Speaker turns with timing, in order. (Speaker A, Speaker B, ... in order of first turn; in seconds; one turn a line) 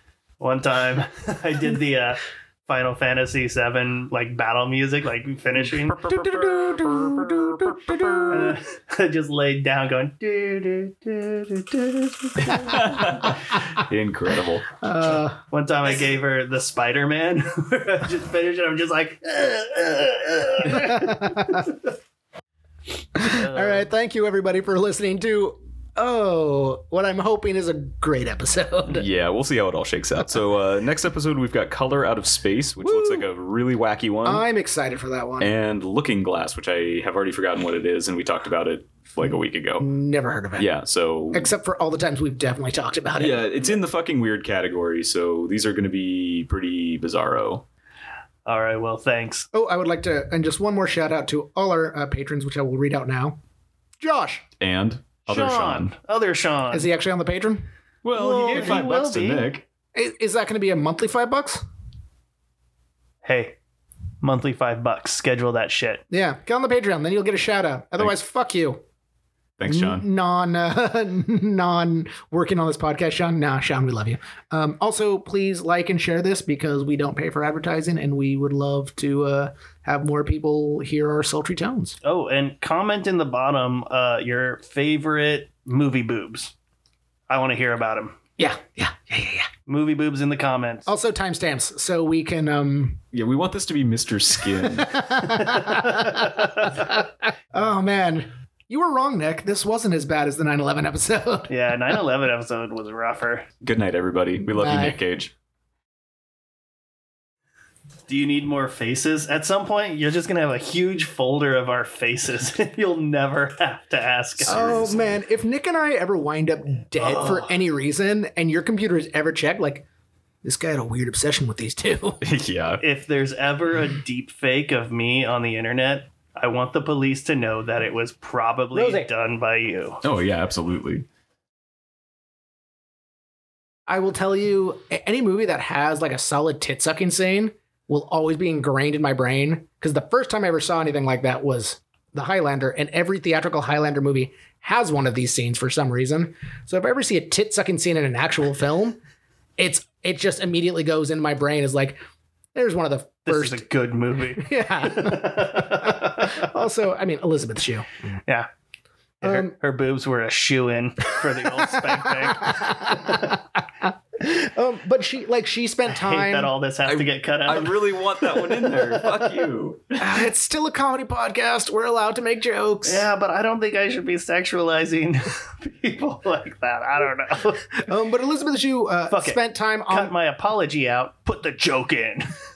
Speaker A: 0.4-6.1
Speaker B: 6.0-8.6
Speaker C: 6.5-7.6
Speaker A: 8.3-13.1
Speaker C: 12.4-14.8
Speaker B: 14.8-15.4
Speaker A: 15.5-21.8
Speaker B: 20.6-21.7
Speaker B: 23.1-29.0
Speaker A: 23.2-23.9
Speaker C: 28.9-34.4
Speaker B: 32.8-33.3
Speaker B: 34.2-35.5
Speaker C: 35.4-39.9
Speaker B: 39.8-40.7
Speaker C: 40.6-41.5
Speaker B: 41.3-43.5
Speaker C: 43.2-47.6
Speaker A: 48.5-49.5
Speaker B: 49.5-53.4
Speaker B: 54.0-54.5
Speaker C: 54.6-55.9
Speaker A: 55.3-56.9
Speaker B: 56.7-57.7
Speaker C: 58.0-59.7
Speaker A: 58.2-59.5
Speaker B: 59.9-61.6
Speaker A: 63.2-63.6
Speaker A: 64.2-66.0
Speaker B: 66.1-68.8
Speaker C: 69.6-70.1
Speaker B: 69.7-82.0
Speaker A: 82.0-86.5
Speaker A: 87.3-88.2
Speaker B: 88.4-89.5
Speaker A: 89.7-90.9
Speaker B: 90.9-93.0
Speaker C: 93.1-95.1
Speaker B: 94.6-102.0
Speaker A: 101.5-103.5
Speaker C: 103.6-105.3
Speaker B: 104.4-105.0
Speaker A: 108.1-114.8
Speaker C: 114.4-115.2
Speaker B: 114.5-119.8
Speaker A: 117.0-117.6
Speaker B: 120.4-122.2
Speaker C: 122.2-122.8
Speaker A: 122.8-130.0
Speaker B: 128.7-129.1
Speaker C: 130.0-131.1
Speaker B: 133.9-149.0
Speaker B: 149.6-152.0
Speaker B: 152.6-153.6
Speaker A: 153.3-156.5
Speaker B: 154.4-157.9
Speaker A: 159.2-163.3
Speaker B: 159.2-159.5
Speaker B: 161.6-166.5
Speaker A: 165.9-167.8
Speaker C: 166.9-170.1
Speaker B: 170.0-173.1
Speaker A: 172.8-177.9
Speaker B: 177.8-180.1
Speaker A: 179.1-182.3